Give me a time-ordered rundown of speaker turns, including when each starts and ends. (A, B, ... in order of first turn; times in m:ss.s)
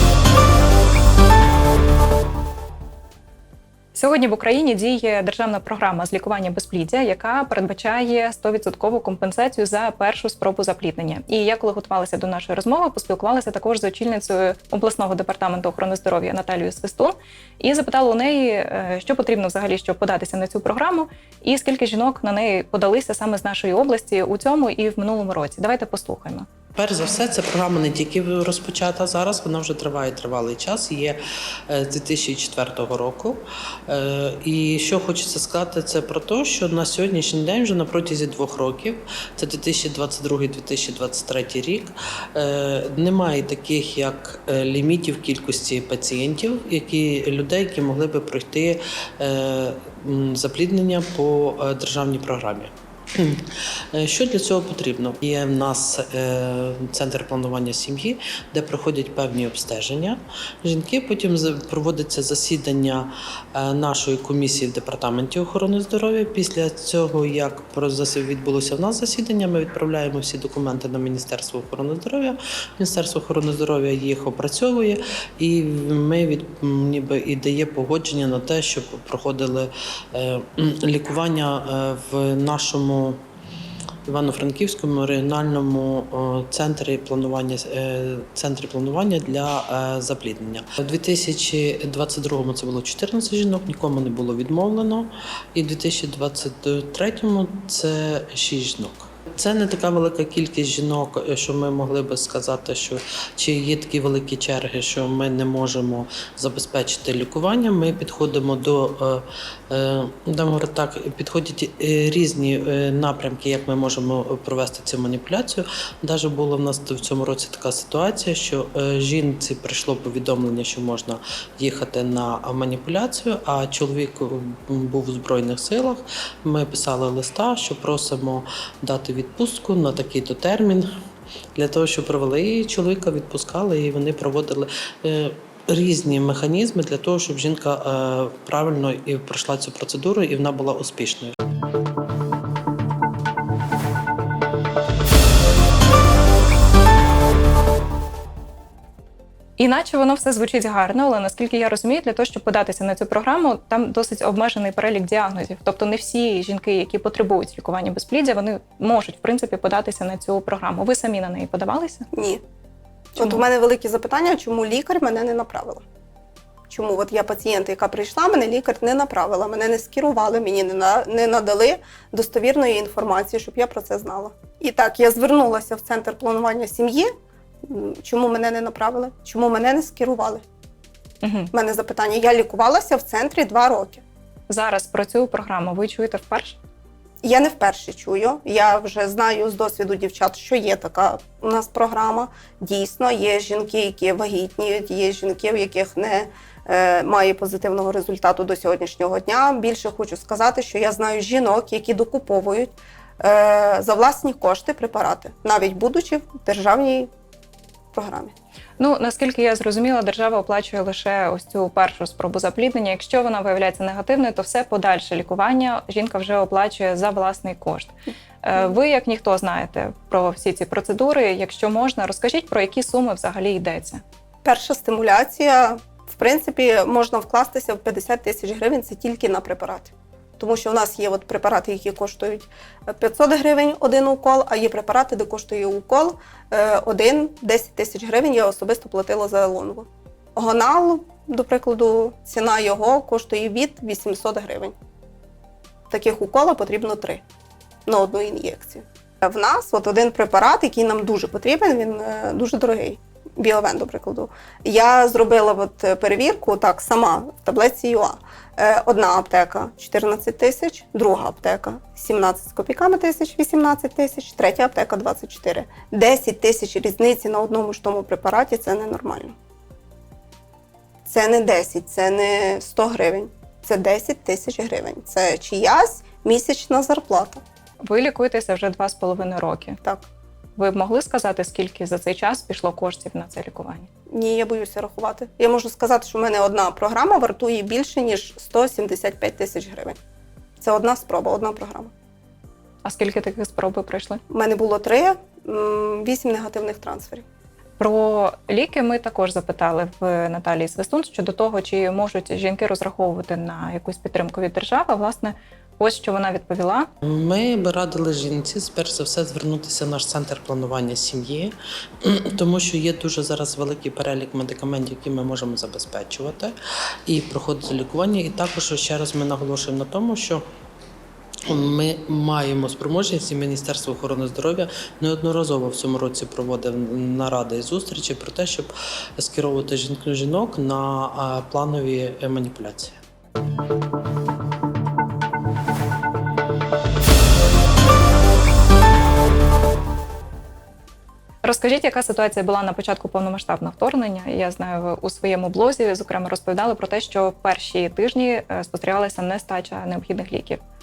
0:03.9-0:26.5 A
0:26.8-1:23.2 B
1:24.1-2:10.9 B
2:11.6-2:21.4 B
2:29.6-2:42.1 A
2:42.1-2:42.4 C
2:43.2-2:45.8 C
2:43.2-2:43.4 A
2:46.7-2:57.1 C
2:57.6-3:00.4 C
3:01.2-3:01.5 A
3:01.5-3:04.0 C
3:04.5-3:06.6 A
3:07.2-3:27.1 C
3:27.9-3:28.4 C
3:28.8-3:44.0 A
3:44.4-4:04.8 C
4:05.9-4:07.2 C
4:07.9-4:29.4 C
4:31.1-4:37.4 C
4:37.8-4:39.8 A
4:40.6-4:43.9 A
4:44.1-4:50.0 C
4:50.6-4:51.9 C
4:52.8-4:54.2 A
4:54.3-4:57.2 C
4:57.8-5:06.9 A
5:07.0-5:16.5 B
5:17.1-5:20.4 B
5:21.4-5:33.0 B
5:41.4-5:50.6 A